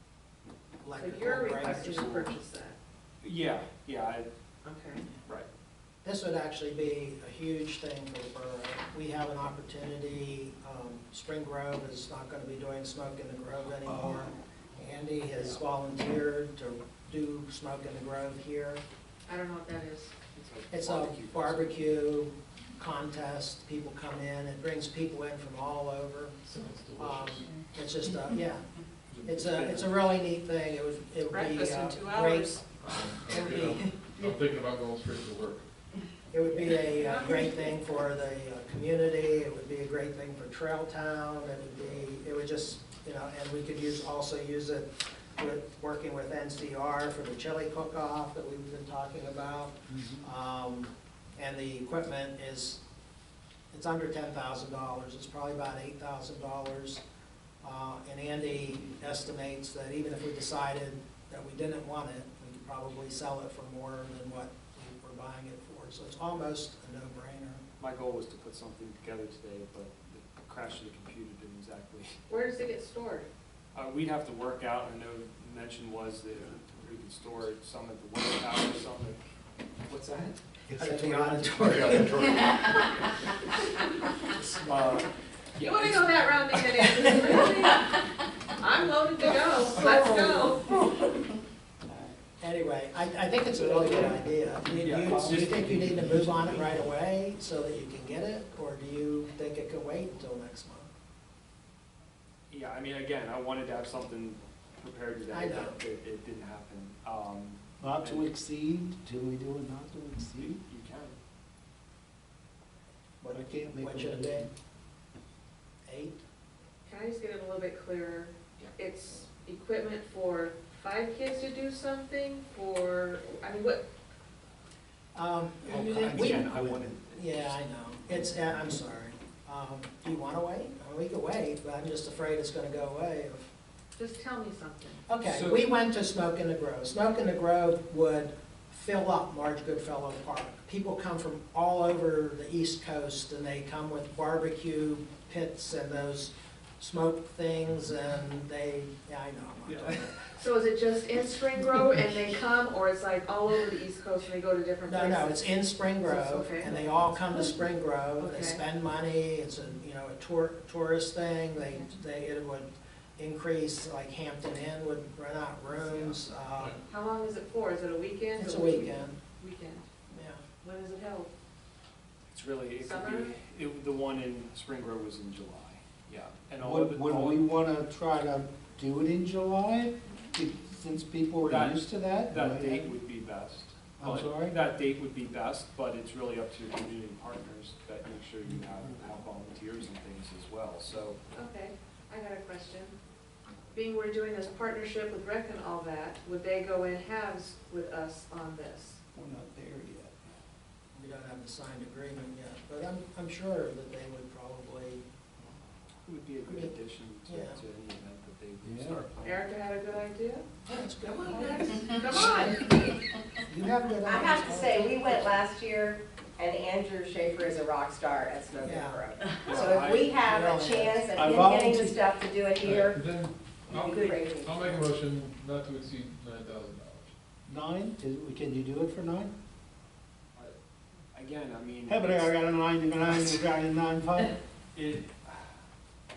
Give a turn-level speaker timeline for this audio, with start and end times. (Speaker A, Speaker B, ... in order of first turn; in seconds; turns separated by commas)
Speaker A: 0.8-2.1, Speaker B: 1.0-2.8, Speaker C: 1.5-2.4, Speaker C: 3.2-4.3, Speaker B: 4.7-5.0, Speaker A: 6.0-18.8, Speaker D: 13.8-14.3, Speaker B: 19.3-20.1, Speaker C: 20.3-21.8, Speaker A: 20.7-26.4, Speaker E: 26.4-27.5, Speaker A: 27.0-28.6, Speaker C: 29.1-29.9, Speaker A: 29.2-32.6, Speaker B: 31.3-32.6, Speaker E: 32.8-35.6, Speaker A: 33.2-33.9, Speaker A: 36.3-52.8, Speaker B: 37.1-37.5, Speaker D: 49.9-50.2, Speaker A: 53.7-57.0, Speaker A: 57.6-67.6, Speaker C: 67.8-72.2, Speaker B: 72.3-73.3, Speaker C: 73.8-79.3, Speaker C: 79.9-80.5, Speaker D: 80.7-81.9, Speaker A: 80.7-82.6, Speaker E: 82.0-82.4, Speaker C: 84.5-86.4, Speaker B: 85.6-88.0, Speaker B: 88.6-90.8, Speaker A: 92.4-100.9, Speaker D: 93.7-94.1, Speaker D: 94.7-96.7, Speaker C: 94.8-96.1, Speaker C: 102.5-108.3, Speaker A: 105.3-105.8, Speaker D: 107.8-110.6, Speaker C: 110.4-111.2, Speaker A: 113.2-114.5, Speaker D: 113.3-114.5, Speaker A: 115.8-116.2, Speaker B: 116.8-123.8, Speaker A: 125.1-126.5, Speaker C: 125.7-127.6, Speaker D: 125.8-126.9, Speaker A: 127.1-133.5, Speaker B: 134.0-135.0, Speaker A: 135.1-150.2, Speaker C: 135.3-135.7, Speaker C: 149.7-150.3, Speaker B: 150.4-157.4, Speaker A: 154.9-166.8, Speaker B: 158.2-158.6, Speaker B: 161.6-161.9, Speaker C: 165.8-166.2, Speaker B: 166.9-169.9, Speaker A: 168.4-169.2, Speaker A: 170.1-170.4, Speaker B: 170.6-171.3, Speaker C: 172.3-177.5, Speaker B: 172.8-173.4, Speaker D: 176.6-182.9, Speaker C: 181.4-191.2, Speaker D: 184.0-184.6, Speaker B: 191.3-192.9, Speaker B: 193.7-199.0, Speaker D: 199.1-200.1, Speaker A: 200.9-205.0, Speaker C: 206.1-209.4, Speaker A: 206.5-207.6, Speaker D: 208.6-209.0, Speaker B: 209.2-210.5, Speaker A: 210.7-212.7, Speaker B: 211.3-213.0, Speaker A: 213.5-215.3, Speaker F: 214.0-223.0, Speaker A: 218.6-219.1, Speaker C: 219.4-220.2, Speaker A: 220.2-221.3, Speaker D: 221.1-222.0, Speaker E: 222.6-227.1, Speaker F: 223.7-224.8, Speaker D: 227.5-229.3, Speaker C: 231.1-232.3, Speaker D: 231.9-234.4, Speaker C: 234.8-235.5